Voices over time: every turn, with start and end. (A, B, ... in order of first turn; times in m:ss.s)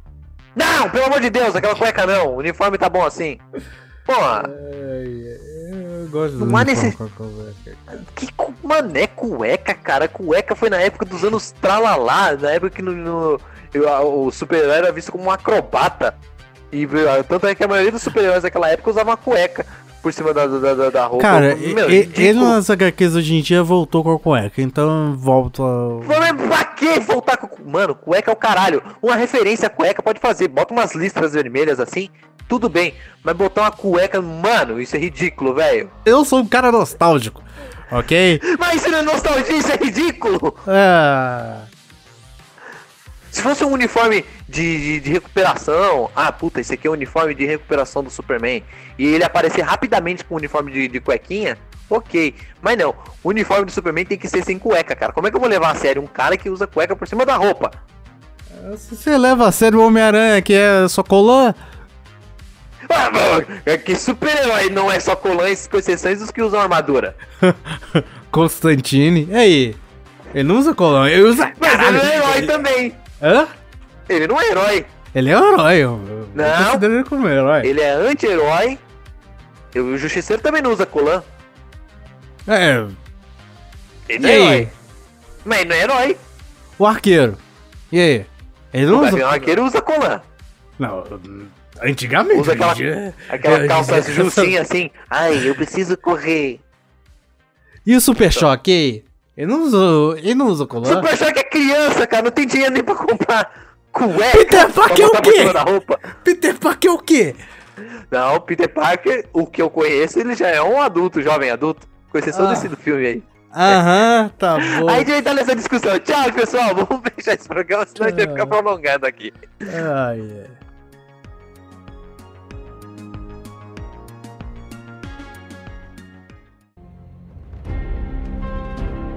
0:00.6-0:03.4 A
0:04.1-0:04.5 A
0:04.3-0:07.8 B
0:06.4-0:07.0 A
0:07.9-0:16.2 A
0:16.7-0:22.6 A
0:21.2-0:26.4 B
0:26.0-0:35.9 A
0:36.1-0:38.4 B
0:38.4-0:40.6 A
0:40.7-0:41.7 B
0:43.3-0:57.8 A
0:58.5-1:01.6 B
1:02.9-1:07.2 A
1:07.4-1:09.8 B
1:10.3-1:12.5 B
1:11.6-1:13.0 A
1:13.2-1:13.5 B
1:14.1-1:14.9 A
1:15.1-1:17.7 B
1:16.3-1:16.9 A
1:17.6-1:18.8 A
1:19.7-1:21.3 A
1:22.5-1:23.0 B
1:24.1-1:24.7 A
1:24.2-1:24.7 B
1:25.4-1:26.2 A
1:26.8-1:27.4 B
1:27.9-1:29.6 B
1:28.9-1:30.2 A
1:30.8-1:34.6 B
1:32.3-1:36.6 A
1:37.9-1:41.1 B
1:40.8-1:46.1 A
1:44.2-1:45.6 B
1:46.1-1:47.4 B
1:48.1-1:53.8 A
1:52.3-1:52.7 B
1:53.5-1:55.1 B
1:54.6-1:59.5 A
1:58.0-1:58.6 B
1:59.7-2:00.6 B